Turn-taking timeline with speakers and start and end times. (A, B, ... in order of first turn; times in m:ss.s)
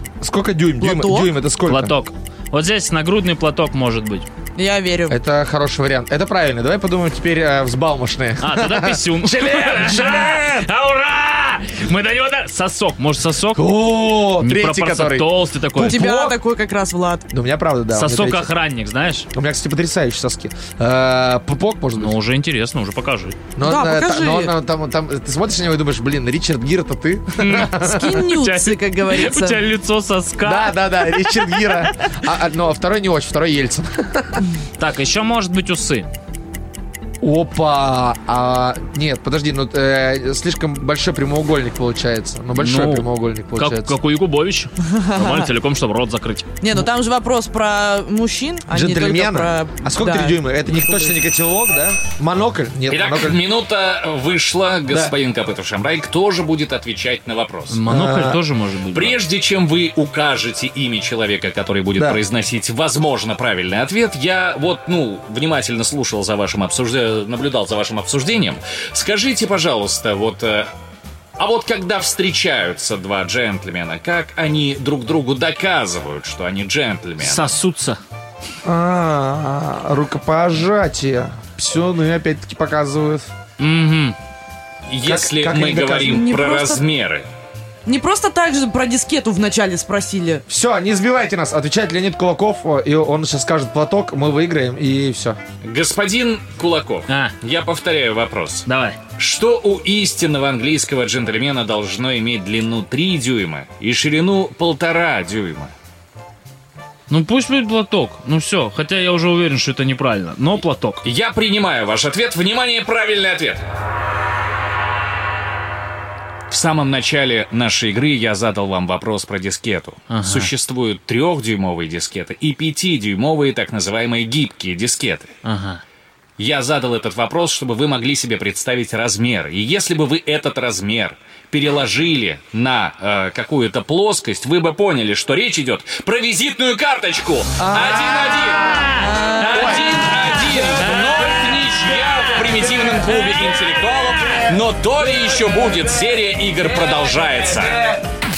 0:00.2-0:01.9 A
0:00.8-0:01.3 B
0:01.7-0:04.3 C
0:04.6-0:05.2 B
0:05.1-0:10.6 A
0:08.4-0:13.7 C
0:13.5-0:16.4 A
0:14.2-0:16.3 C
0:15.8-0:17.3 B
0:17.3-0:18.5 A
0:17.9-0:19.3 C
0:19.3-0:22.2 A
0:22.0-0:23.4 C
0:23.6-0:28.2 A
0:23.6-0:24.5 B
0:27.4-0:31.8 C
0:27.8-0:29.6 B
0:30.4-0:34.4 A
0:34.8-0:36.1 C
0:37.2-0:44.0 A
0:42.6-0:46.5 C
0:45.0-0:45.4 B
0:46.6-0:51.2 B
0:48.7-0:53.4 A
0:52.9-0:57.8 D
0:57.7-0:59.2 C
0:57.9-0:58.4 A
0:58.9-1:10.7 D
1:11.4-1:17.5 D
1:17.2-1:18.0 C
1:18.6-1:23.3 A
1:23.6-1:24.2 C
1:24.9-1:27.3 D
1:25.0-1:26.2 A
1:26.0-1:26.8 B
1:27.9-1:30.4 B
1:30.5-1:35.4 A
1:35.6-1:38.7 D
1:37.1-1:37.4 C
1:38.7-1:39.0 C
1:39.2-1:45.7 D
1:47.1-1:51.0 C
1:51.0-1:53.6 D
1:56.5-2:05.3 D
2:00.1-2:00.5 C
2:05.4-2:05.8 C
2:06.4-2:27.8 D
2:17.6-2:19.9 A
2:18.7-2:19.2 C